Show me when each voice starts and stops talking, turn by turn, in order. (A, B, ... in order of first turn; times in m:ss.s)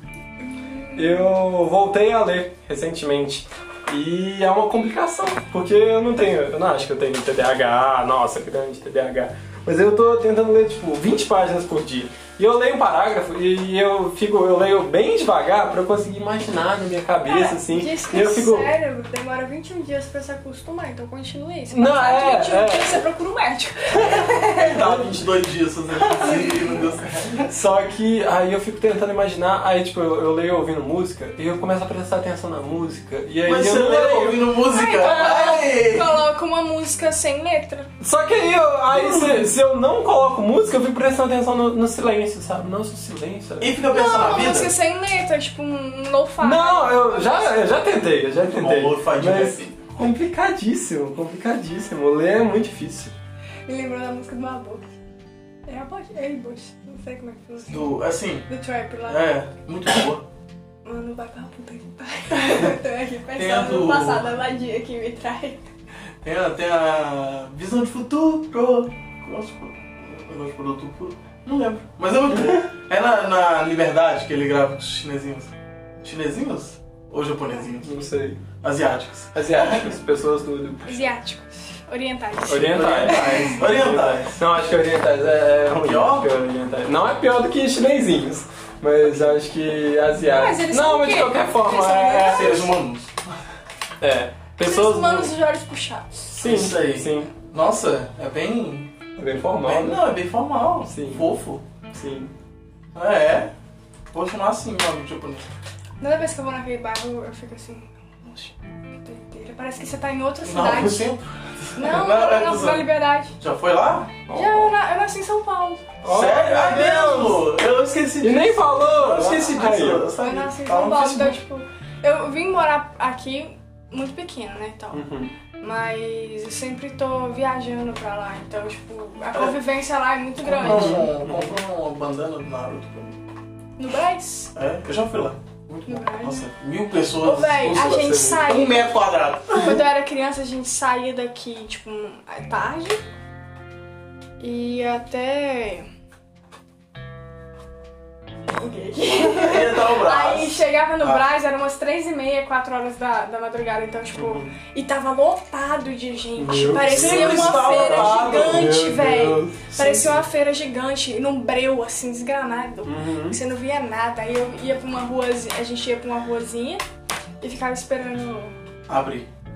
0:00.4-0:01.3 A
0:01.0-0:18.7 B
0:17.2-0:24.8 A
0:21.7-0:23.0 B
0:23.9-0:25.2 B
0:24.5-0:27.5 C
0:26.0-0:26.4 B
0:26.2-0:26.7 A
0:27.4-0:34.5 B
0:33.4-0:36.2 C
0:34.7-0:37.9 A
0:38.0-0:43.7 B
0:38.9-0:39.4 C
0:43.6-0:44.7 C
0:43.9-0:47.8 A
0:46.4-0:53.1 B
0:48.5-0:49.8 C
0:53.6-0:54.9 A
0:55.6-0:59.3 A
0:57.7-0:58.5 C
0:59.1-1:00.2 C
1:00.8-1:05.6 A
1:03.3-1:04.3 C
1:06.2-1:17.9 C
1:17.8-1:18.4 B
1:18.6-1:20.0 C
1:19.3-1:21.1 B
1:20.8-1:23.6 A
1:22.5-1:32.7 B
1:22.6-1:24.4 C
1:25.7-1:26.3 C
1:30.2-1:32.7 A
1:32.2-1:33.2 C
1:34.0-1:35.3 B
1:34.6-1:36.4 A
1:36.3-1:37.3 B
1:36.4-1:38.9 C
1:39.2-1:40.0 B
1:39.6-1:41.6 C
1:40.9-1:41.2 B
1:41.9-1:42.3 B
1:42.9-1:43.5 C
1:44.1-1:45.5 C
1:46.0-1:51.1 A
1:50.4-1:54.2 C
1:51.8-1:53.4 A
1:54.3-1:54.7 B
1:54.3-1:55.8 A
1:56.0-1:57.4 B
1:56.0-2:01.4 C
1:58.2-2:00.0 B
2:00.2-2:05.0 A
2:04.9-2:05.3 B
2:05.6-2:11.1 A
2:10.4-2:13.2 C
2:10.6-2:11.6 B
2:13.8-2:14.5 A
2:14.5-2:19.8 C
2:15.8-2:16.5 A
2:17.2-2:18.9 A
2:19.5-2:23.0 A
2:24.4-2:25.8 A
2:28.5-2:46.8 A
2:29.1-2:31.2 C
2:34.2-2:34.5 B
2:36.4-2:39.6 B
2:36.8-2:38.8 C
2:39.7-2:40.2 C
2:42.8-2:43.4 B
2:47.4-2:48.5 A
2:48.9-2:49.3 C